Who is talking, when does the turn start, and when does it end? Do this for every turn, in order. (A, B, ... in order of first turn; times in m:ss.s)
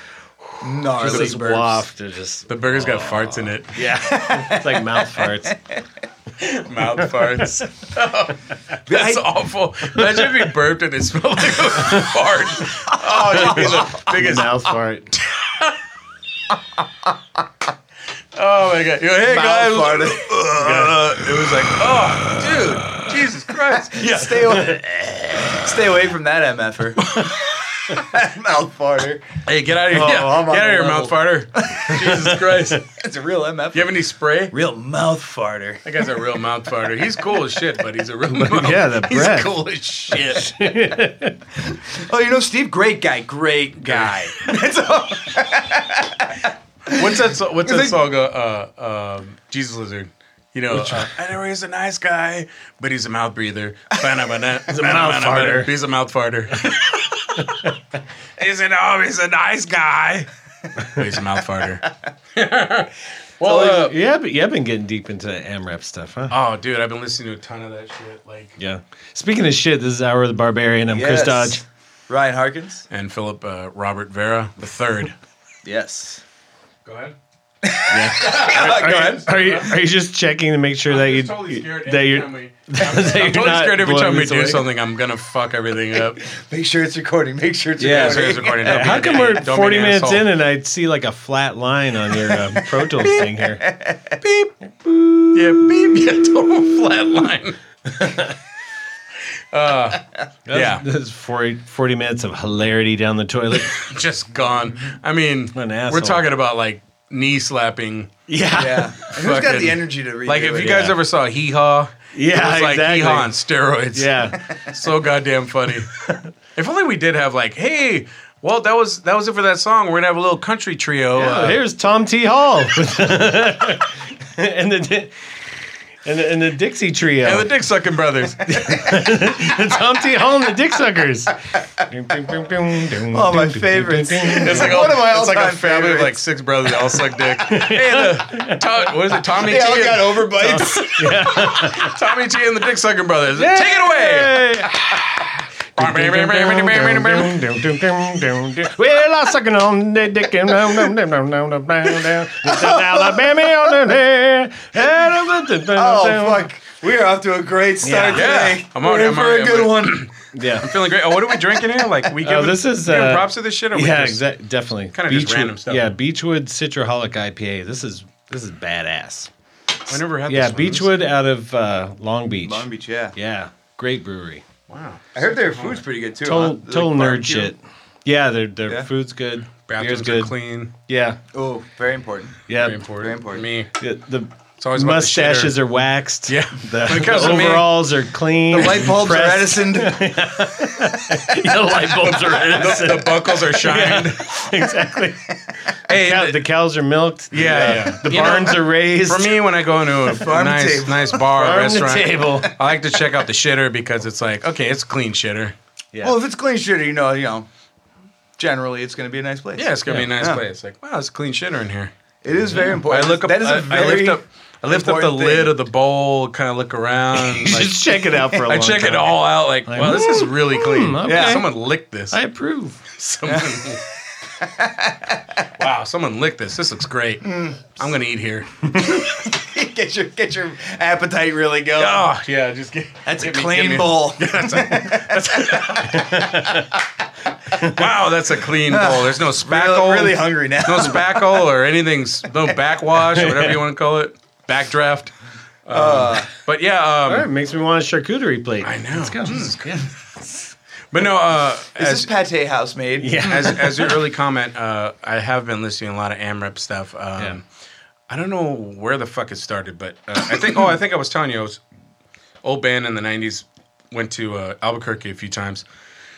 0:00.4-0:05.6 A
0:00.6-0:01.8 B
0:02.5-0:03.8 C
0:04.0-0:05.8 B
0:06.4-0:14.7 C
0:07.4-0:07.6 A
0:08.9-0:09.3 B
0:11.8-0:12.1 A
0:12.9-0:14.1 B
0:13.3-0:15.1 A
0:18.4-0:24.4 C
0:19.2-0:22.0 B
0:23.8-0:27.1 B
0:24.6-0:25.5 A
0:27.1-0:27.6 C
0:27.9-0:29.3 B
0:29.5-0:32.8 C
0:29.9-0:32.3 B
0:32.2-0:32.8 A
0:32.8-0:34.0 B
0:33.7-0:34.6 C
0:34.5-0:36.0 B
0:35.8-0:40.5 C
0:38.4-0:39.5 A
0:40.3-0:41.4 A
0:41.8-0:48.0 B
0:43.8-0:44.4 C
0:46.9-0:57.6 C
0:50.7-0:51.1 A
0:54.7-0:55.7 A
0:58.4-1:00.3 C
1:00.8-1:03.9 C
1:03.4-1:03.8 B
1:03.4-1:06.3 A
1:06.3-1:08.6 C
1:08.6-1:11.6 A
1:10.9-1:12.8 B
1:12.9-1:15.2 C
1:15.6-1:16.2 B
1:16.8-1:17.2 C
1:17.6-1:19.4 B
1:17.9-1:24.6 A
1:18.2-1:19.7 C
1:20.9-1:26.2 C
1:26.2-1:29.2 B
1:27.8-1:33.6 A
1:27.8-1:30.3 C
1:32.5-1:34.2 B
1:34.2-1:34.5 C
1:34.8-1:35.7 A
1:35.3-1:37.6 C
1:37.9-1:38.4 A
1:39.5-1:40.8 C
1:40.5-1:43.8 A
1:43.6-1:48.1 C
1:45.5-1:46.2 A
1:48.3-1:49.0 A
1:48.5-1:50.9 B
1:49.0-1:55.9 C
1:50.6-1:51.0 A
1:52.1-1:53.3 A
1:53.9-1:54.4 A
1:56.0-1:56.3 A
1:56.6-2:01.6 C
2:01.2-2:05.1 A
2:06.0-2:07.5 A
2:07.2-2:08.8 C
2:08.4-2:14.8 A
2:13.1-2:16.2 B
2:14.3-2:24.4 C
2:16.8-2:18.2 B
2:17.4-2:18.6 A
2:19.2-2:21.1 B
2:20.4-2:22.0 A
2:23.4-2:24.8 A
2:25.8-2:27.4 C
2:25.8-2:36.5 A
2:32.4-2:33.4 B
2:35.7-2:40.1 B
2:37.8-2:38.4 A
2:38.1-2:44.2 C
2:40.3-2:40.7 A
2:41.3-2:42.1 B
2:42.2-2:49.3 A
2:44.9-2:46.0 C
2:49.9-2:51.0 C
2:50.3-2:54.4 A
2:52.4-2:53.2 B
2:54.7-2:55.8 C
2:55.2-2:57.5 B
2:56.2-3:00.3 A
2:59.7-3:00.7 C
3:00.9-3:01.2 A
3:01.3-3:02.4 B
3:02.5-3:02.8 A
3:02.6-3:03.7 C
3:03.0-3:03.5 B
3:03.8-3:15.4 A
3:04.6-3:05.6 C
3:06.3-3:07.8 C
3:08.5-3:11.2 B
3:11.8-3:14.5 C
3:15.9-3:16.4 C
3:15.9-3:19.4 A
3:17.3-3:25.6 C
3:17.5-3:17.9 B
3:20.1-3:21.2 B
3:21.3-3:22.5 A
3:25.9-3:26.2 A
3:26.0-3:27.5 B
3:28.4-3:30.4 B
3:29.6-3:31.9 C
3:32.2-3:35.6 B
3:32.6-3:37.9 C
3:37.1-3:41.5 A
3:38.4-3:42.2 C
3:41.1-3:41.4 B
3:42.1-3:42.9 A
3:42.9-3:43.8 C
3:43.3-3:43.7 B
3:44.4-3:45.4 B
3:45.6-3:48.6 C
3:47.3-3:47.7 B
3:48.9-3:52.1 B
3:51.8-3:56.1 C
3:53.0-3:56.6 B
3:55.9-3:56.7 A
3:57.6-4:05.1 C
3:58.6-4:01.4 B
4:03.1-4:03.6 A
4:05.7-4:07.3 C
4:05.7-4:06.3 B
4:07.1-4:10.5 A
4:08.6-4:09.8 C
4:10.9-4:12.1 C
4:11.8-4:13.7 B
4:13.0-4:13.9 A
4:13.2-4:17.4 C
4:18.1-4:21.6 C
4:22.4-4:25.6 C